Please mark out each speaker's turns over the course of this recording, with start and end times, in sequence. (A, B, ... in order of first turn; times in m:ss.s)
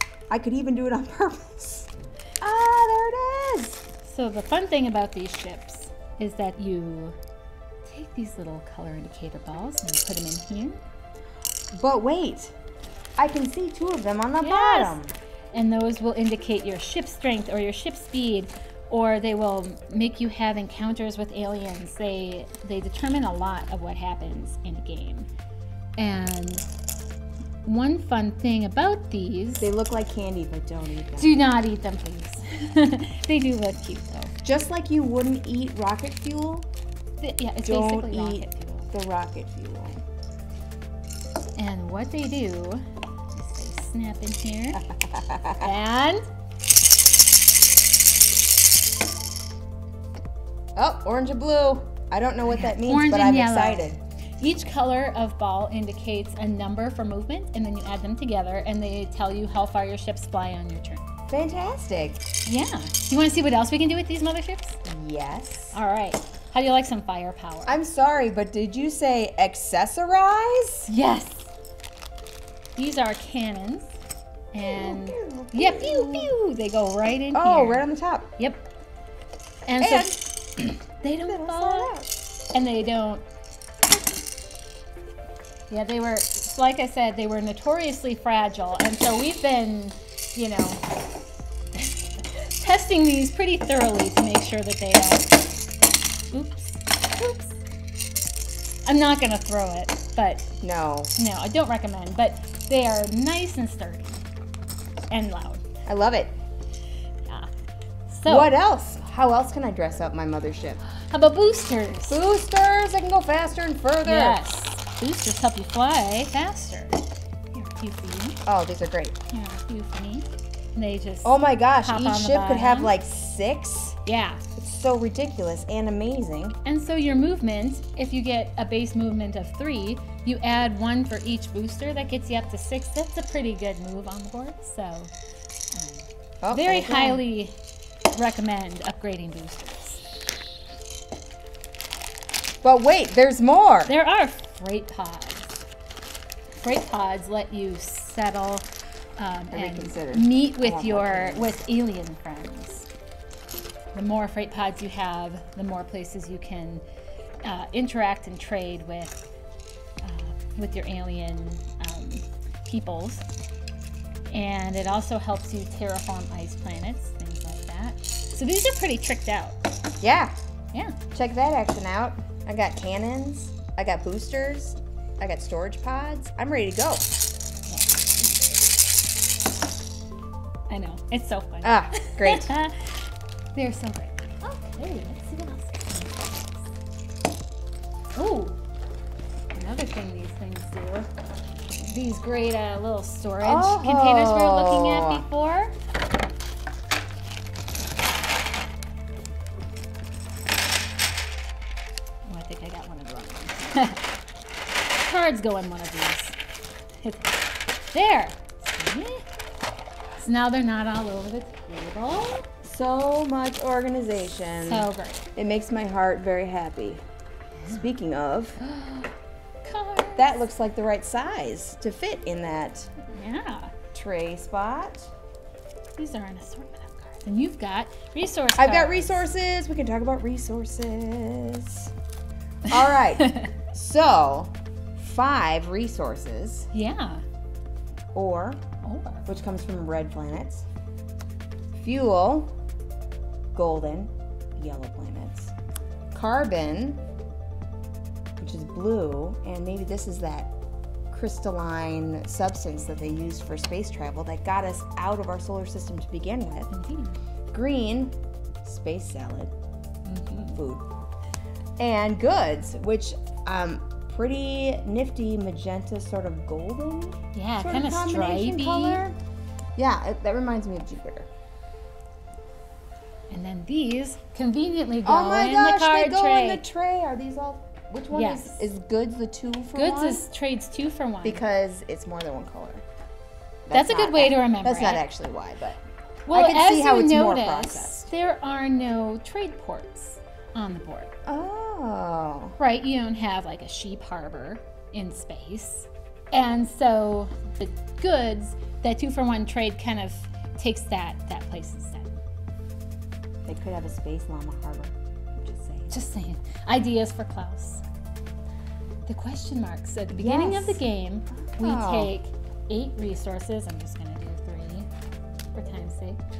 0:00.3-0:03.8 A
0:04.0-0:07.2 B
0:07.8-0:10.8 B
0:11.7-0:12.6 A
0:13.2-0:15.1 A
0:14.4-0:15.0 B
0:15.5-0:25.3 B
0:26.0-0:26.7 B
0:27.6-0:29.7 B
0:29.6-0:31.4 A
0:31.2-0:34.4 B
0:34.4-0:36.7 A
0:37.2-0:38.9 B
0:37.6-0:40.0 A
0:41.6-0:44.9 B
0:44.9-0:45.7 A
0:45.6-0:46.3 B
0:50.8-0:54.0 A
0:52.5-1:01.0 B
1:01.3-1:02.2 A
1:02.4-1:04.8 B
1:04.8-1:05.8 A
1:05.7-1:07.8 B
1:07.7-1:10.9 A
1:10.9-1:11.5 B
1:12.8-1:14.0 B
1:14.5-1:17.9 B
1:14.6-1:16.3 A
1:17.3-1:18.3 A
1:18.4-1:18.6 B
1:19.7-1:23.2 B
1:19.8-1:20.7 A
1:21.2-1:22.1 A
1:25.7-1:30.8 B
1:31.8-1:35.4 B
1:36.3-1:37.6 B
1:38.9-1:40.5 B
1:40.6-1:41.1 A
1:41.2-1:44.2 B
1:45.1-1:45.6 B
1:45.8-1:46.3 A
1:47.3-1:47.5 B
1:48.1-1:48.5 B
1:48.3-1:50.8 A
1:50.9-1:52.2 B
1:52.1-1:54.4 A
1:54.0-1:57.0 B
1:57.5-1:58.4 B
1:58.4-1:59.2 A
1:59.3-2:03.0 B
2:01.2-2:04.0 A
2:04.0-2:04.4 B
2:04.6-2:06.6 A
2:06.6-2:15.1 B
2:15.7-2:17.6 B
2:16.4-2:17.2 A
2:18.1-2:20.0 B
2:22.6-2:23.9 A
2:23.9-2:25.6 B
2:26.6-2:28.7 B
2:29.2-2:32.9 B
2:29.5-2:31.6 A
2:33.9-2:36.8 B
2:37.4-2:39.3 B
2:40.0-2:43.3 B
2:44.3-2:49.6 B
2:50.0-2:50.4 A
2:51.1-2:57.1 A
2:57.7-2:58.6 B
3:00.7-3:06.7 B
3:01.6-3:02.6 A
3:08.2-3:08.6 B
3:09.5-3:11.1 B
3:11.9-3:15.8 B
3:13.4-3:15.2 A
3:22.3-3:24.1 B
3:25.0-3:26.4 B
3:27.0-3:29.2 B
3:30.2-3:32.5 B
3:32.6-3:37.0 A
3:34.6-3:35.3 B
3:37.7-3:38.6 A
3:38.6-3:40.4 B
3:40.2-3:42.9 A
3:43.0-3:43.7 B
3:43.9-3:45.1 A
3:46.0-3:49.3 B
3:48.6-3:51.9 A
3:52.7-3:56.7 A
3:53.2-3:53.5 B
3:56.7-3:57.2 B
3:58.1-3:58.6 A
3:58.8-3:59.3 B
3:59.3-4:00.7 A
4:01.7-4:02.5 A
4:03.5-4:05.5 A
4:06.1-4:07.0 A
4:08.4-4:10.5 A
4:11.1-4:16.7 A
4:16.7-4:17.2 B
4:17.5-4:19.5 A
4:20.1-4:20.6 B
4:20.5-4:20.9 A
4:21.8-4:29.2 A
4:27.3-4:29.0 B
4:29.8-4:31.3 A
4:33.3-4:36.6 B
4:35.0-4:40.3 A
4:38.1-4:38.6 B
4:39.7-4:41.4 B
4:41.2-4:42.8 A
4:43.7-4:45.8 A
4:43.7-4:45.0 B
4:46.3-4:51.1 B
4:46.3-4:48.1 A
4:51.3-4:52.6 A
4:52.6-5:02.1 B
5:03.5-5:05.9 A
5:05.9-5:07.8 B
5:09.1-5:14.9 B
5:10.1-5:10.8 A
5:11.5-5:12.1 A
5:15.5-5:16.2 B